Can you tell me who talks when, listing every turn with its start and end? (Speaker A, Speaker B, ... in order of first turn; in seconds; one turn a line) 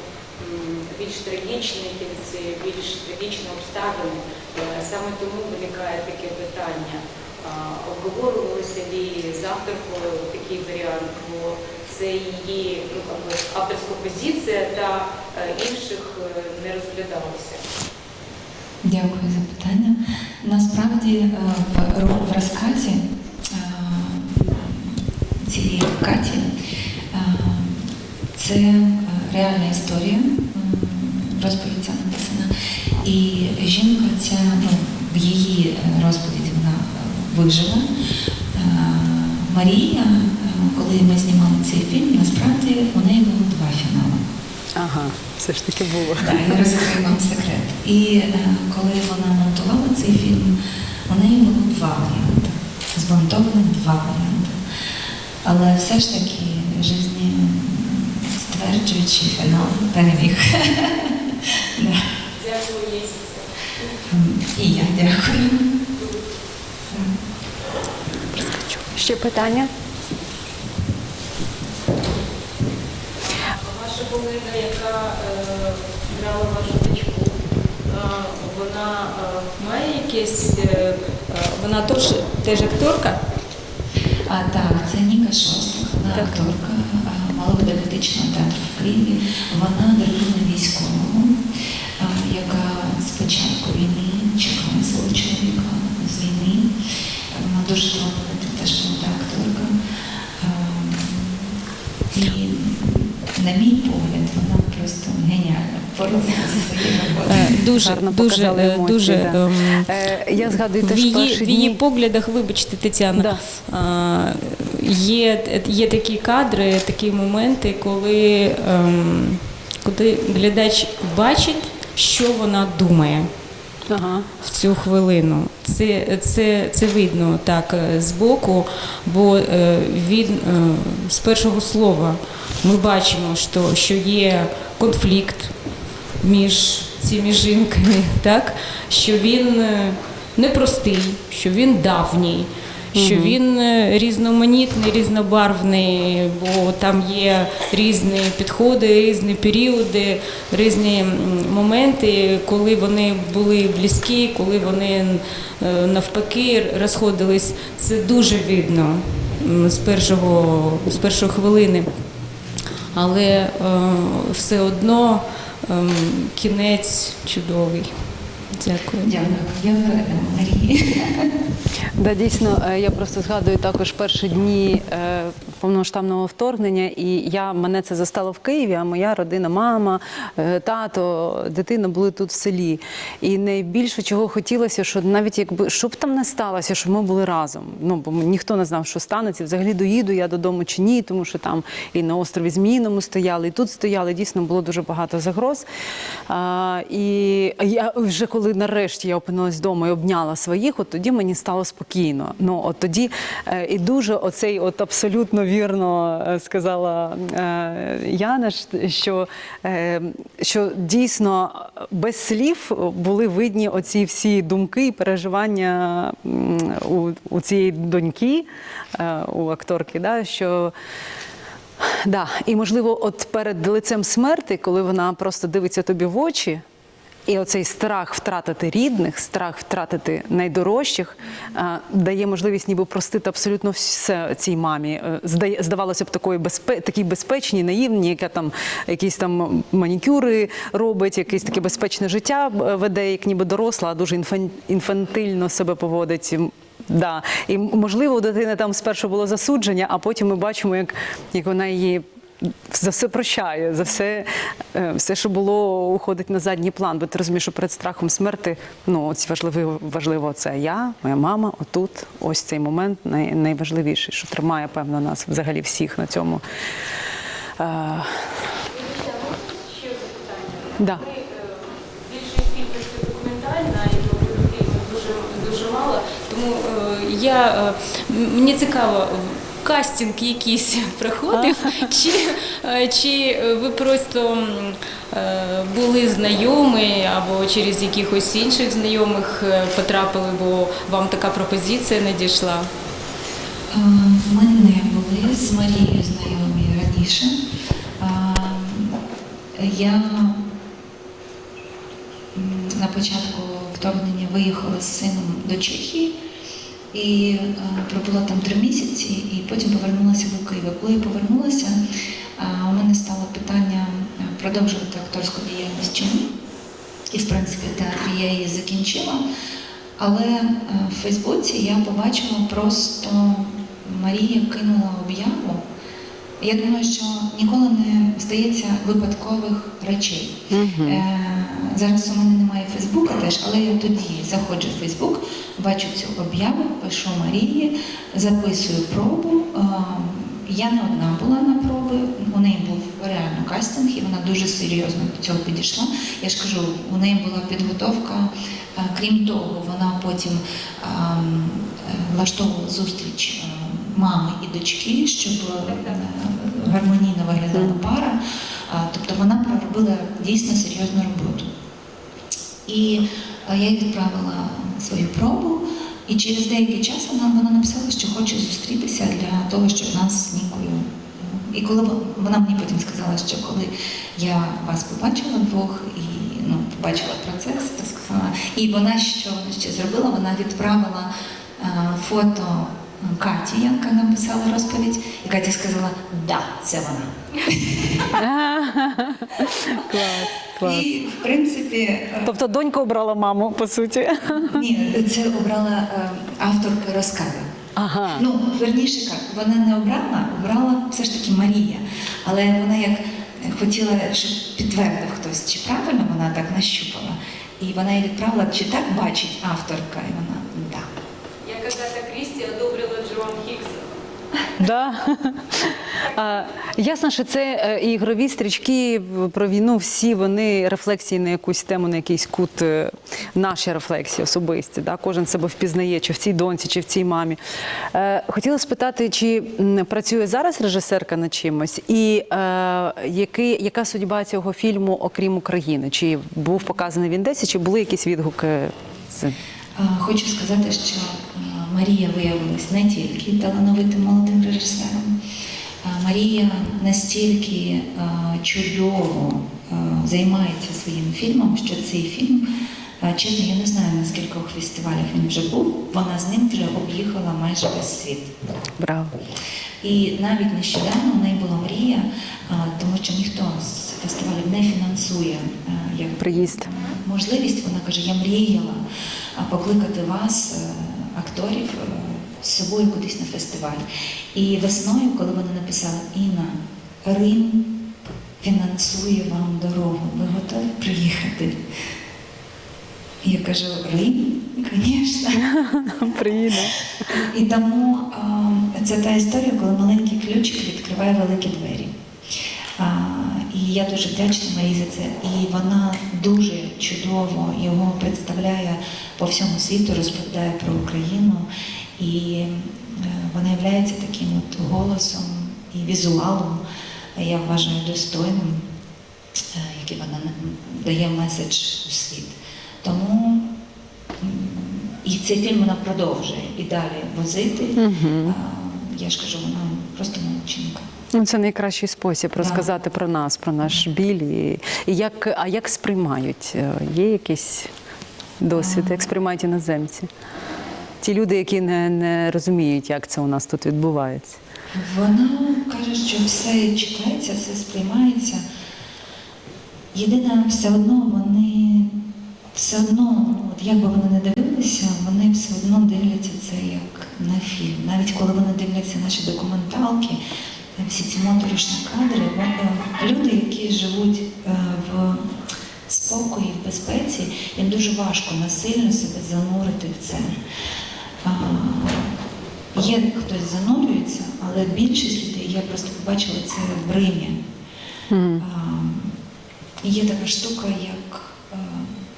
Speaker A: 0.4-17.7
Speaker B: 18.8-26.5
Speaker B: 27.1-37.9
Speaker B: 38.5-44.2
Speaker C: 44.8-46.6
Speaker B: 46.2-54.6
Speaker B: 55.4-62.1
Speaker A: 62.3-64.0
Speaker B: 64.1-65.7
Speaker A: 65.9-66.4
Speaker B: 66.9-67.3
Speaker A: 68.4-68.7
Speaker C: 68.9-69.7
Speaker A: 73.2-83.2
Speaker B: 84.3-91.4
Speaker A: 86.1-86.5
Speaker B: 92.0-96.7
Speaker B: 97.3-101.5
Speaker B: 102.1-107.6
Speaker A: 107.3-109.9
Speaker C: 107.7-111.8
Speaker A: 110.8-123.3
Speaker C: 113.1-113.6
Speaker C: 123.9-124.3
Speaker A: 124.4-135.6
Speaker A: 136.2-161.9
Speaker C: 142.9-143.4
Speaker A: 162.9-169.1
Speaker B: 169.0-171.3
Speaker C: 172.0-195.7
Speaker C: 196.3-220.7
Speaker C: 221.8-226.6
Speaker C: 227.3-266.4
Speaker C: 267.6-268.4
Speaker A: 268.7-292.7
Speaker C: 270.8-271.0
Speaker C: 281.3-282.0
Speaker B: 293.7-297.4
Speaker B: 298.0-299.0
Speaker B: 299.6-300.4
Speaker B: 302.3-306.1
Speaker B: 306.9-311.8
Speaker B: 312.4-316.3
Speaker B: 317.1-319.2
Speaker B: 320.0-325.6
Speaker B: 326.4-361.5
Speaker C: 330.5-331.0
Speaker A: 355.7-355.9
Speaker C: 357.5-357.9
Speaker B: 362.7-388.1
Speaker C: 388.2-390.9
Speaker B: 390.6-392.4
Speaker C: 392.2-394.6
Speaker B: 394.3-397.5
Speaker C: 397.8-398.3
Speaker B: 398.1-410.9
Speaker A: 411.4-414.0
Speaker C: 414.6-427.4
Speaker A: 416.0-416.6
Speaker C: 427.9-439.4
Speaker B: 439.8-445.1
Speaker B: 445.8-452.4
Speaker B: 453.0-458.3
Speaker C: 458.8-459.1
Speaker B: 459.8-468.8
Speaker C: 466.2-466.7
Speaker B: 469.4-477.7
Speaker B: 478.4-481.6
Speaker B: 483.2-485.4
Speaker C: 485.4-487.2
Speaker B: 487.1-491.9
Speaker B: 492.8-501.5
Speaker B: 502.0-506.6
Speaker B: 507.2-508.6
Speaker B: 509.5-513.5
Speaker B: 514.2-520.9
Speaker C: 517.8-518.4
Speaker C: 521.1-527.7
Speaker B: 522.4-522.7
Speaker C: 528.4-530.1
Speaker B: 528.5-529.1
Speaker C: 531.0-534.4
Speaker B: 534.7-538.4
Speaker B: 539.9-541.9
Speaker B: 542.5-550.2
Speaker B: 550.8-555.3
Speaker B: 555.9-560.3
Speaker B: 561.2-562.2
Speaker B: 562.7-567.4
Speaker C: 568.1-568.5
Speaker B: 568.4-569.2
Speaker B: 569.8-571.9